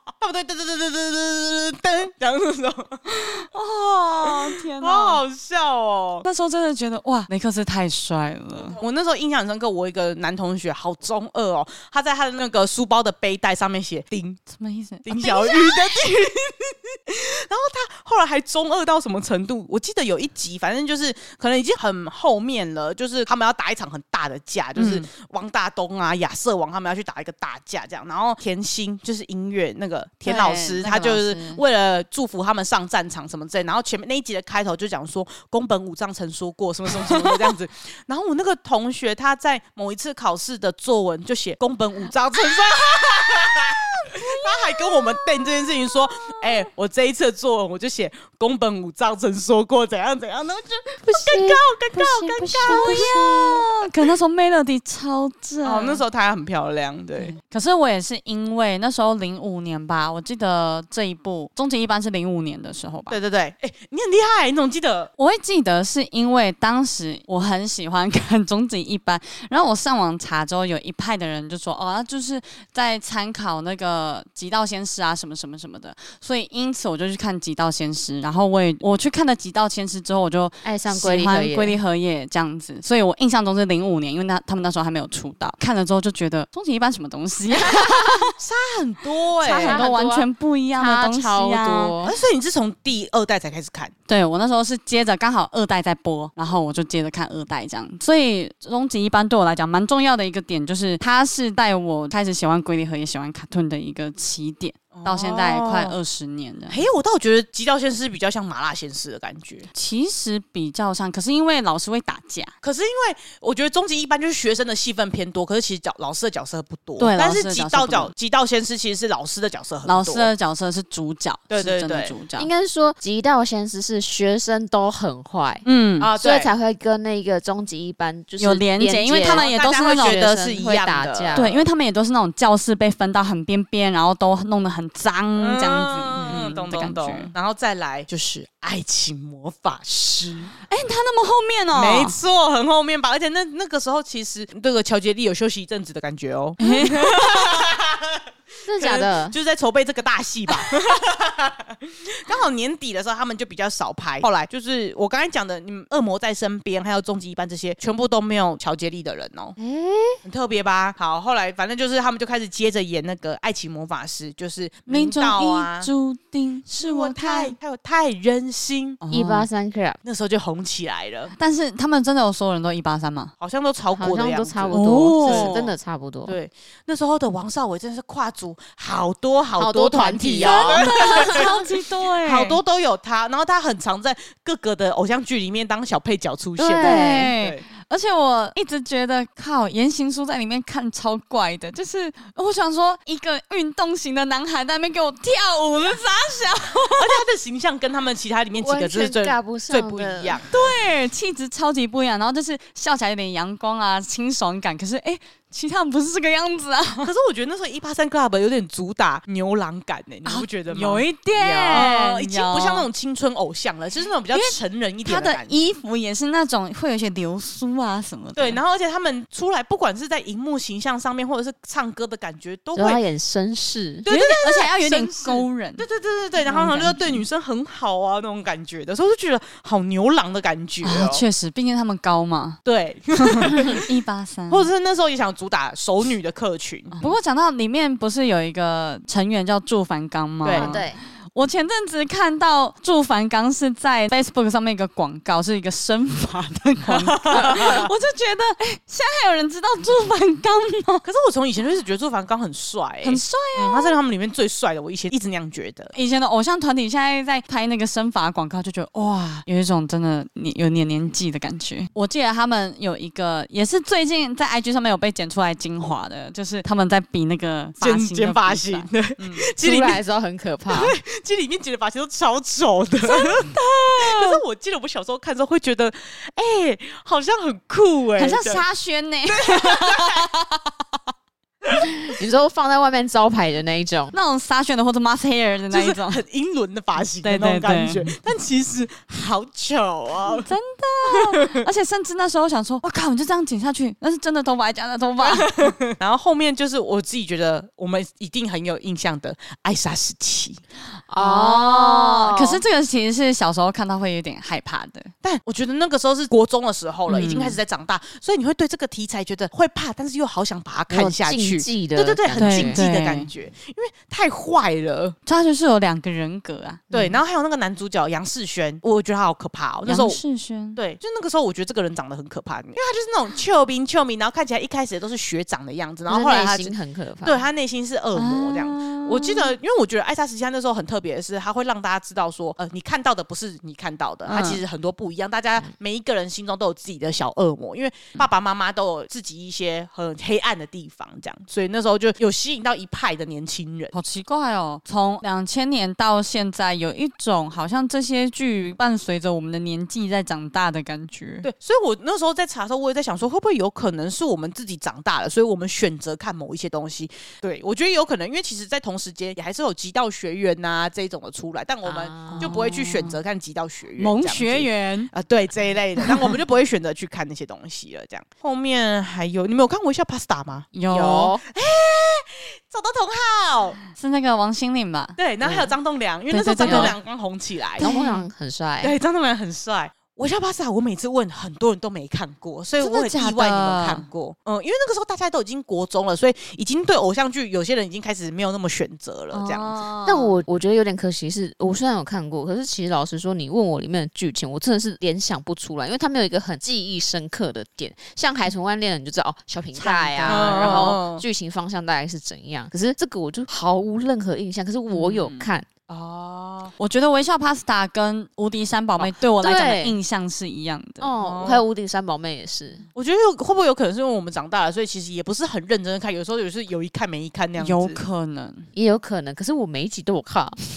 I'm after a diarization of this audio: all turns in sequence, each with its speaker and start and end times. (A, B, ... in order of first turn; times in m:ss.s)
0:00.2-0:03.3 A
0:03.1-0:05.2 B
0:04.2-0:06.2 A
0:06.2-0:08.8 B
0:08.5-0:14.4 A
0:14.5-0:16.0 B
0:15.0-0:53.7 A
0:24.8-0:25.0 B
0:30.2-0:31.6 B
0:36.9-0:37.5 B
0:43.8-0:45.6 B
0:51.0-0:53.6 C
0:52.6-0:56.0 B
0:55.6-0:57.3 A
0:57.2-1:03.2 B
1:03.1-1:05.1 A
1:05.2-1:28.3 B
1:20.6-1:21.8 C
1:28.4-1:29.8 A
1:29.4-1:32.0 B
1:29.4-1:32.2 C
1:32.0-1:33.9 A
1:34.1-1:46.8 B
1:44.9-1:46.0 A
1:46.7-1:49.7 A
1:49.7-1:52.5 B
1:52.6-2:00.3 A
1:57.0-1:58.1 B
1:59.8-2:02.5 B
2:01.5-2:02.1 A
2:02.4-2:05.6 C
2:05.6-2:06.1 B
2:06.0-2:06.5 A
2:06.2-2:11.5 C
2:08.4-2:10.2 B
2:09.2-2:11.6 A
2:11.3-2:17.3 B
2:15.4-2:20.5 A
2:16.2-2:16.4 C
2:20.7-2:22.2 B
2:21.7-2:39.6 A
2:26.6-2:27.4 B
2:28.6-2:29.4 C
2:39.6-2:40.2 C
2:40.2-2:45.9 A
2:44.8-2:47.5 B
2:46.7-2:49.0 A
2:49.0-2:49.5 B
2:49.1-2:50.0 C
2:50.0-2:51.3 A
2:51.4-2:53.3 B
2:53.4-2:55.6 A
2:53.9-2:56.4 C
2:54.7-2:55.7 B
2:56.3-3:01.7 A
2:59.6-3:01.5 C
3:00.4-3:02.6 B
3:02.2-3:07.6 A
3:06.6-3:07.3 C
3:06.8-3:17.2 B
3:17.0-3:20.7 A
3:18.6-3:20.4 C
3:20.5-3:27.1 B
3:27.0-3:31.0 A
3:30.2-3:32.9 B
3:31.4-3:31.9 C
3:31.7-3:35.6 A
3:34.3-3:38.6 B
3:38.3-3:43.0 A
3:42.7-3:44.0 C
3:44.0-3:51.2 A
3:44.1-3:45.8 B
3:46.4-3:47.2 B
3:50.8-3:52.6 B
3:52.6-3:53.9 A
3:53.4-3:54.7 B
3:54.5-3:57.0 A
3:57.0-4:11.0 B
4:00.4-4:00.8 A
4:00.5-4:01.0 C
4:06.9-4:07.9 A
4:11.0-4:15.9 A
4:13.0-4:14.0 B
4:15.9-4:29.4 B
4:27.8-4:30.0 A
4:29.6-4:30.9 C
4:30.7-4:38.6 A
4:33.0-4:34.4 B
4:38.2-4:40.3 B
4:39.3-4:40.3 A
4:41.8-4:44.1 C
4:44.1-4:46.2 B
4:45.7-4:50.5 A
4:47.2-4:48.2 B
4:50.2-4:55.8 B
4:51.1-4:51.6 A
4:55.2-5:00.6 A
5:01.1-5:02.6 C
5:01.2-5:05.1 B
5:05.2-5:15.2 A
5:07.1-5:07.6 B
5:10.9-5:12.8 C
5:12.4-5:13.3 B
5:15.2-5:16.9 B
5:16.9-5:17.2 C
5:16.9-5:20.2 A
5:19.8-5:20.8 B
5:20.7-5:43.9 A
5:26.1-5:27.4 C
5:28.2-5:29.5 B
5:34.3-5:34.6 B
5:43.9-5:51.5 B
5:51.4-6:10.7 A
6:01.8-6:02.5 C
6:02.3-6:03.2 B
6:04.0-6:05.1 B
6:10.7-6:11.3 B
6:10.9-6:11.4 C
6:11.4-6:13.8 A
6:13.9-6:15.6 B
6:15.2-6:17.9 A
6:16.3-6:17.0 B
6:16.6-6:17.0 C
6:17.8-6:19.0 C
6:17.8-6:18.2 B
6:18.8-6:29.8 A
6:22.8-6:24.0 B
6:29.3-6:30.3 B
6:30.0-6:45.7 C
6:39.7-6:41.0 B
6:40.3-6:41.2 A
6:44.9-6:45.5 B
6:45.9-6:46.7 A
6:46.8-6:51.1 B
6:49.4-6:50.0 C
6:51.0-6:52.8 C
6:51.2-6:51.6 A
6:52.9-6:58.0 A
6:57.6-6:58.7 B
6:58.7-7:00.6 C